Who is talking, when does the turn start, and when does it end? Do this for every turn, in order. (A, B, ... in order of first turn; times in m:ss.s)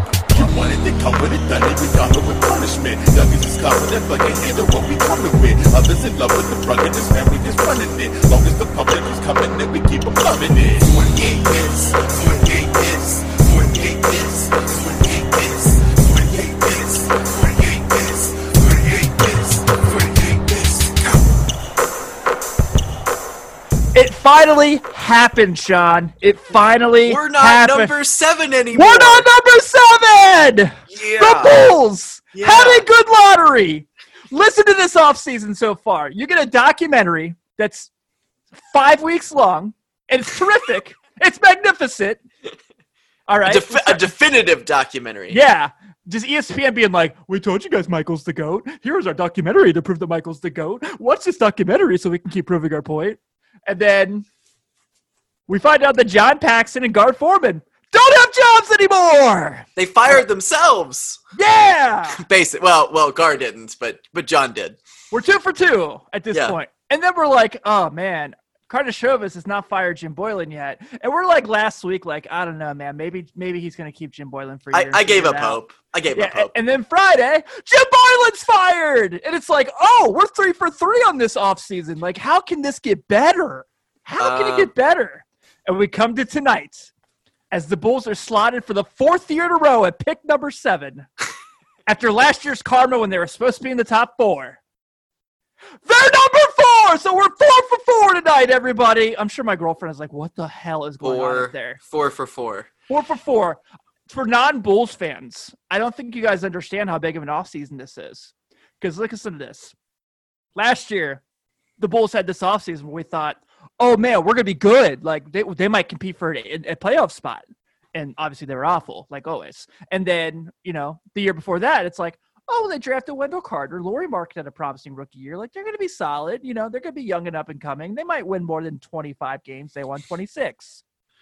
0:00.3-0:20.9 A
0:23.9-0:27.9 B
0:27.0-0:29.3 C
0:28.7-0:37.9 B
0:30.9-0:31.7 C
0:32.3-0:32.8 C
0:38.6-0:42.2 B
0:43.3-0:44.1 B
0:43.4-0:45.4 C
0:45.3-0:54.2 B
0:55.5-1:00.2 B
0:59.8-1:01.2 C
1:01.3-1:02.2 B
1:02.1-1:04.8 C
1:05.1-1:15.6 B
1:06.3-1:06.6 C
1:14.7-1:16.5 C
1:16.1-1:26.9 B
1:24.2-1:24.7 C
1:27.5-1:31.1 B
1:31.9-1:34.6 B
1:35.8-1:41.8 B
1:41.0-1:42.7 C
1:42.9-1:49.7 B
1:50.6-1:51.2 B
1:51.8-2:10.8 B